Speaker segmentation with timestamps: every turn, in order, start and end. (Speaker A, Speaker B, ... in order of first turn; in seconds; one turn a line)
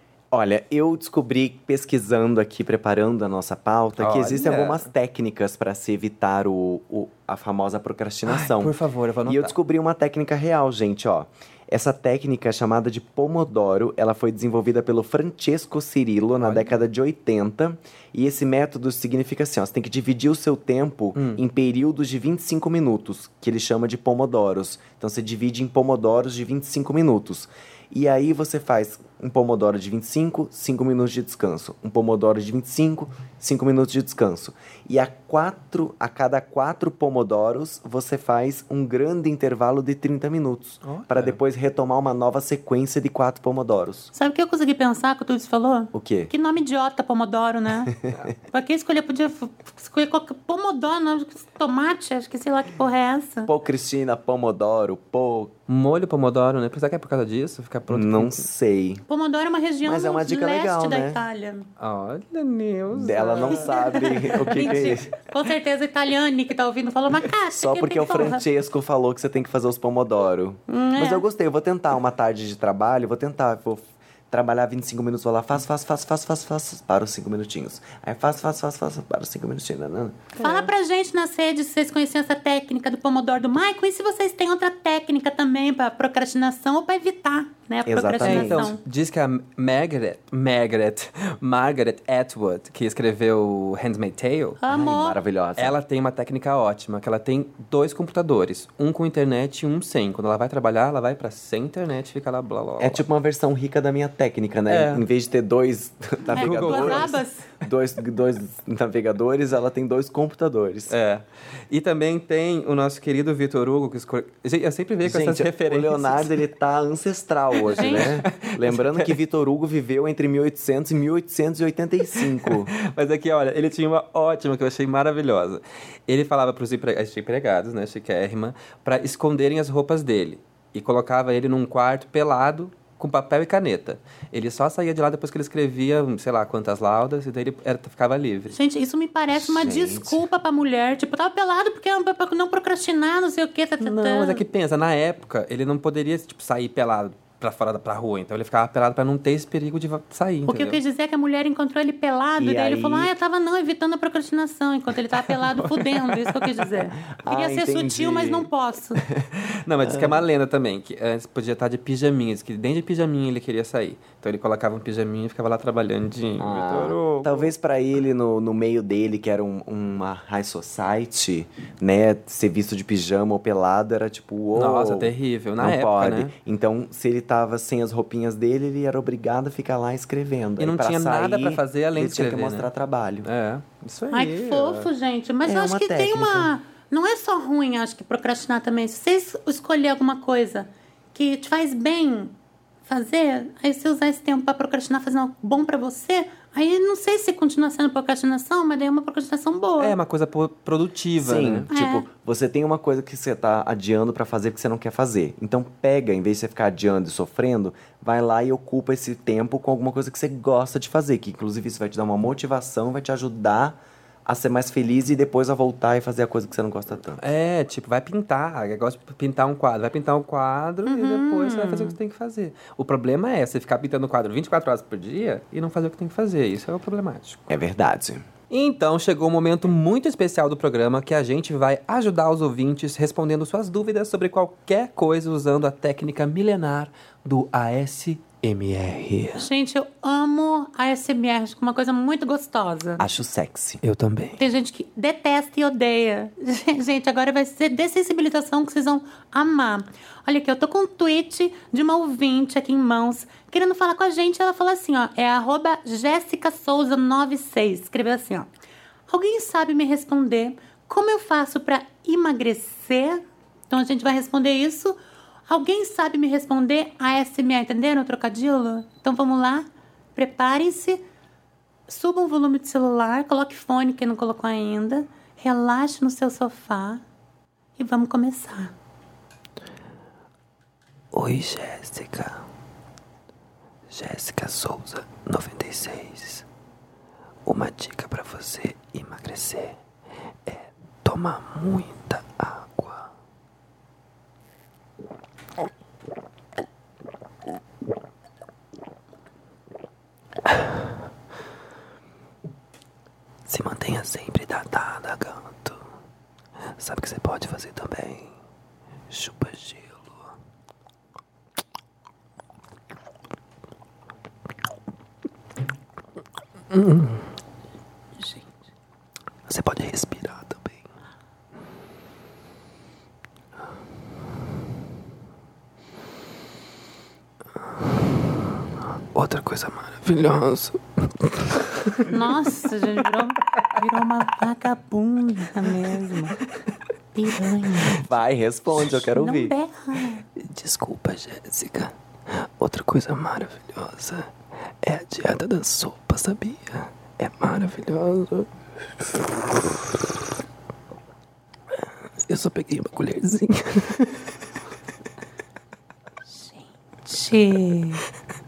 Speaker A: 0.3-8.8
Speaker B: 4.0-4.9
Speaker B: 8.3-9.5
Speaker A: 9.3-44.1
Speaker B: 16.4-16.8
Speaker B: 21.1-21.4
Speaker B: 40.8-41.4
Speaker C: 44.1-47.9
Speaker A: 45.9-46.3
Speaker A: 47.9-48.3
Speaker C: 48.5-53.5
Speaker A: 53.5-55.5
Speaker B: 55.7-58.5
Speaker A: 57.9-59.0
Speaker C: 59.1-61.7
Speaker A: 59.8-61.2
Speaker B: 61.8-65.0
Speaker A: 62.9-65.1
Speaker C: 63.5-68.4
Speaker A: 67.5-80.3
Speaker C: 70.7-71.2
Speaker B: 80.4-80.7
Speaker C: 80.4-88.8
Speaker A: 87.9-88.7
Speaker B: 88.2-94.6
Speaker C: 94.6-95.2
Speaker A: 94.7-95.8
Speaker B: 95.6-103.0
Speaker A: 102.8-111.0
Speaker B: 104.7-105.0
Speaker B: 106.3-107.2
Speaker C: 106.3-107.5
Speaker B: 110.9-116.3
Speaker A: 115.0-122.7
Speaker B: 117.6-119.2
Speaker C: 117.7-118.1
Speaker B: 122.2-138.6
Speaker C: 138.5-144.4
Speaker A: 139.3-140.3
Speaker B: 143.8-150.8
Speaker C: 150.5-159.0
Speaker A: 152.4-153.1
Speaker B: 155.2-156.8
Speaker A: 157.1-158.5
Speaker B: 159.4-167.5
Speaker A: 159.8-160.3
Speaker A: 166.4-183.3
Speaker B: 174.5-176.3
Speaker B: 180.6-182.7
Speaker B: 183.2-184.9
Speaker C: 184.1-192.3
Speaker A: 185.4-186.5
Speaker C: 192.9-200.0
Speaker B: 199.8-201.7
Speaker A: 201.2-217.3
Speaker C: 201.7-202.1
Speaker B: 217.2-227.5
Speaker C: 220.9-221.9
Speaker A: 227.5-228.3
Speaker B: 228.5-239.5
Speaker C: 239.4-243.1
Speaker A: 243.0-243.8
Speaker B: 243.8-244.4
Speaker C: 244.4-258.5
Speaker C: 259.1-271.0
Speaker C: 271.9-277.0
Speaker C: 277.8-278.7
Speaker B: 281.1-282.4
Speaker B: 283.9-286.4
Speaker B: 287.5-289.8
Speaker B: 290.5-293.1
Speaker B: 303.5-305.8
Speaker B: 306.8-308.3
Speaker B: 309.1-310.3
Speaker B: 316.7-317.2
Speaker B: 319.5-320.8
Speaker B: 329.1-332.4
Speaker C: 332.0-336.4
Speaker C: 337.1-338.0
Speaker B: 337.4-338.0
Speaker A: 337.9-339.6
Speaker C: 339.1-340.2
Speaker B: 340.4-344.3
Speaker B: 344.8-348.5
Speaker B: 352.2-354.3
Speaker C: 356.4-358.0